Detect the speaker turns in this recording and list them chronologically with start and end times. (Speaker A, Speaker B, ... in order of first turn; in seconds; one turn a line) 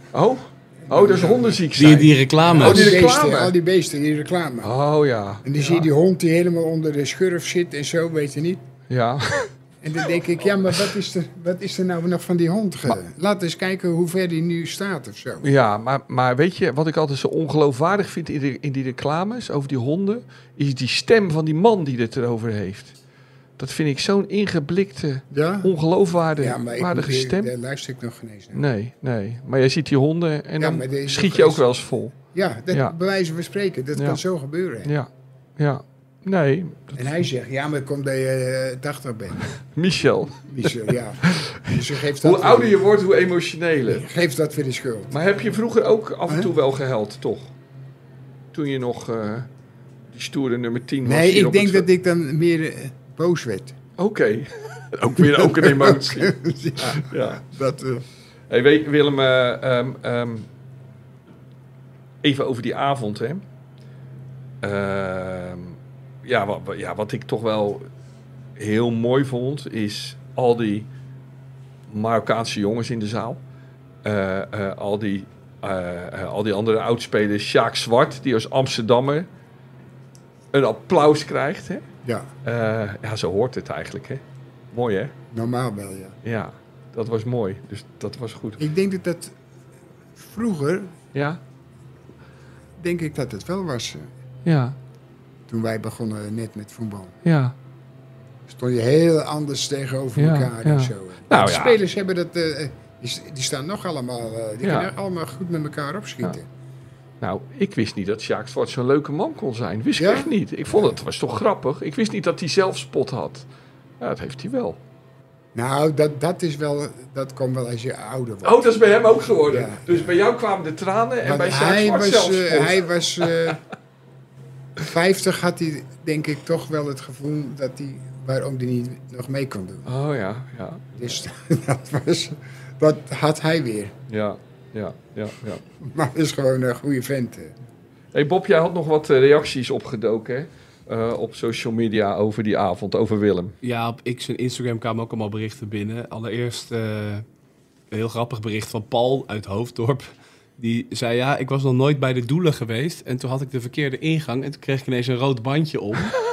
Speaker A: 0.1-3.5
Speaker B: 0.8-1.6
Speaker C: 1.7-3.0
Speaker B: 2.5-4.7
Speaker A: 4.6-5.9
Speaker B: 5.4-8.6
Speaker A: 8.9-9.5
Speaker B: 9.8-15.5
Speaker A: 15.4-22.9
Speaker A: 23.6-27.5
Speaker B: 25.3-25.7
Speaker B: 26.4-28.6
Speaker A: 28.5-32.2
Speaker B: 30.6-31.6
Speaker B: 32.3-34.9
Speaker A: 34.0-34.2
Speaker A: 34.8-37.2
Speaker B: 37.0-39.5
Speaker A: 39.6-44.1
Speaker B: 40.5-42.8
Speaker B: 43.9-45.1
Speaker A: 45.1-47.5
Speaker A: 48.5-49.5
Speaker A: 50.1-51.9
Speaker B: 51.0-53.7
Speaker A: 54.0-57.4
Speaker B: 55.2-58.0
Speaker A: 58.5-60.5
Speaker A: 62.2-63.4
Speaker A: 64.6-67.9
Speaker A: 68.6-70.9
Speaker A: 71.9-73.4
Speaker A: 74.0-79.3
Speaker A: 80.5-81.8
Speaker B: 82.0-82.3
Speaker A: 82.4-85.1
Speaker B: 85.3-86.2
Speaker A: 86.2-88.6
Speaker B: 88.6-89.3
Speaker B: 90.2-91.0
Speaker A: 91.1-91.4
Speaker B: 92.8-94.1
Speaker A: 94.5-94.8
Speaker B: 95.5-97.2
Speaker A: 97.2-97.5
Speaker B: 98.5-106.5
Speaker A: 100.2-101.8
Speaker A: 104.6-104.9
Speaker A: 107.2-113.5
Speaker B: 110.0-110.3
Speaker A: 114.0-114.8
Speaker B: 115.5-118.7
Speaker A: 118.4-123.5
Speaker B: 119.4-120.1
Speaker B: 121.2-123.6
Speaker B: 124.8-129.9
Speaker A: 129.9-131.1
Speaker B: 130.9-133.9
Speaker A: 134.1-135.6
Speaker B: 135.8-137.6
Speaker A: 138.1-143.6
Speaker C: 143.6-147.2
Speaker C: 147.9-156.2